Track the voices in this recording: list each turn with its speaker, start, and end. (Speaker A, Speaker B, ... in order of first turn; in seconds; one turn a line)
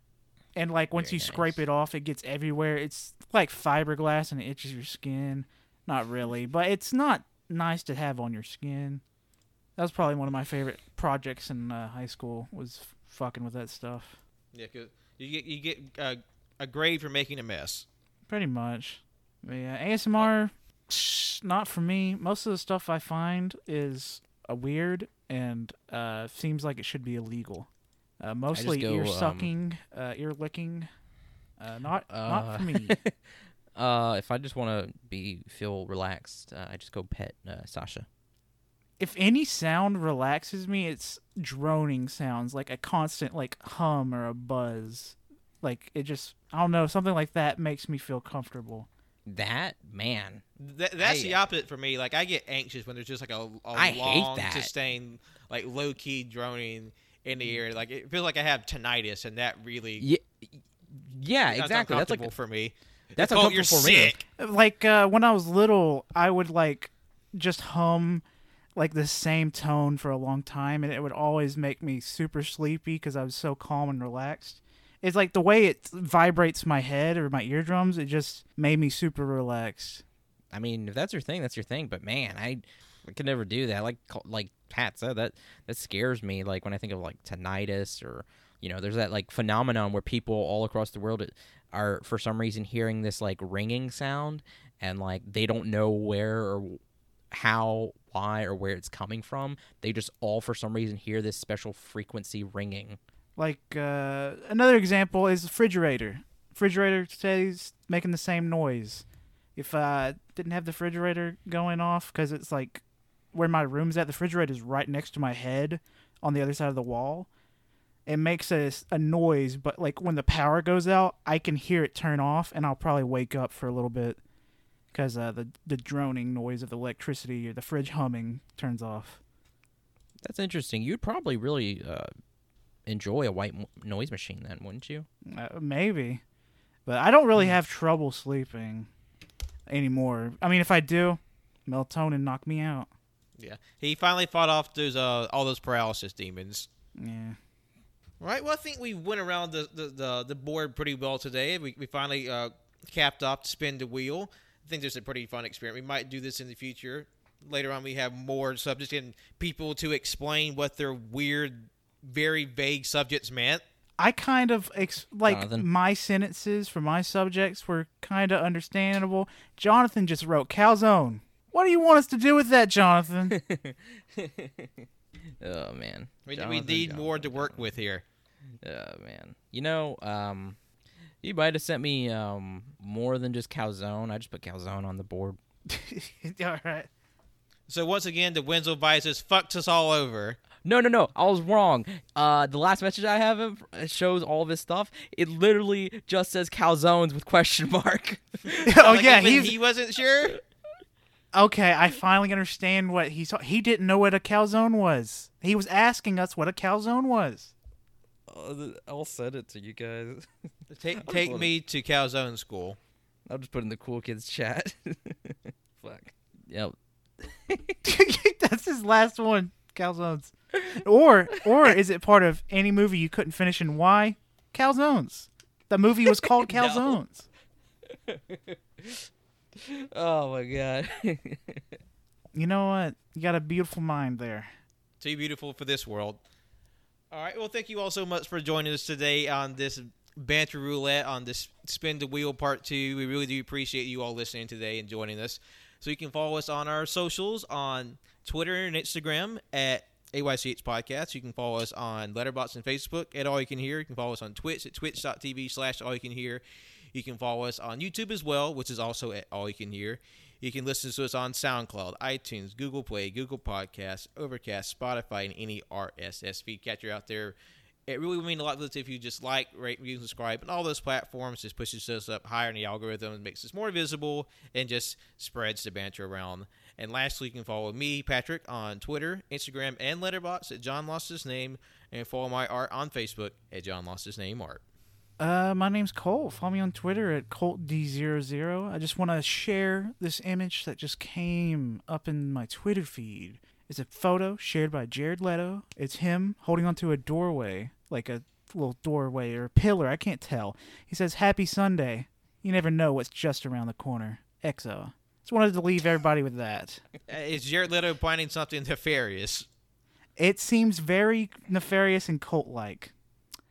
Speaker A: 0.6-9.0
Speaker B: 0.9-1.6
Speaker A: 9.8-14.2
Speaker C: 14.5-17.9
Speaker A: 18.3-27.7
Speaker A: 28.2-30.9
Speaker B: 28.5-29.5
Speaker A: 31.6-33.0
Speaker B: 32.1-33.1
Speaker B: 33.7-38.1
Speaker A: 39.0-48.9
Speaker B: 49.3-50.4
Speaker C: 50.6-60.0
Speaker B: 51.0-51.4
Speaker B: 53.7-54.7
Speaker B: 60.0-62.3
Speaker C: 61.5-64.2
Speaker B: 63.2-64.2
Speaker A: 64.4-68.2
Speaker A: 68.8-80.0
Speaker B: 80.5-103.0
Speaker A: 103.3-109.0
Speaker A: 109.5-112.8
Speaker A: 113.3-117.3
Speaker A: 118.0-124.2
Speaker A: 124.9-129.2
Speaker B: 130.2-132.1
Speaker B: 132.9-135.1
Speaker A: 135.2-136.2
Speaker A: 136.8-138.9
Speaker A: 139.7-142.9
Speaker C: 143.4-146.7
Speaker A: 147.0-147.4
Speaker C: 148.2-163.6
Speaker A: 164.0-173.4
Speaker B: 165.3-165.7
Speaker B: 173.3-174.9
Speaker B: 175.4-177.7
Speaker C: 176.3-178.0
Speaker B: 178.6-180.6
Speaker B: 181.2-185.4
Speaker A: 185.7-186.9
Speaker C: 187.7-190.4
Speaker B: 190.6-199.4
Speaker A: 198.6-199.5
Speaker C: 198.8-200.4
Speaker A: 201.3-207.5
Speaker B: 208.3-210.3
Speaker C: 210.7-212.8
Speaker B: 210.9-211.5
Speaker B: 213.3-217.8
Speaker A: 217.8-227.2
Speaker B: 220.6-220.8
Speaker B: 221.5-221.8
Speaker B: 226.2-226.9
Speaker B: 227.9-231.8
Speaker A: 232.3-234.5
Speaker C: 235.0-236.2
Speaker C: 237.1-256.4
Speaker C: 256.9-267.4
Speaker C: 267.9-284.6
Speaker A: 285.2-306.8
Speaker C: 307.1-309.5
Speaker A: 310.2-312.9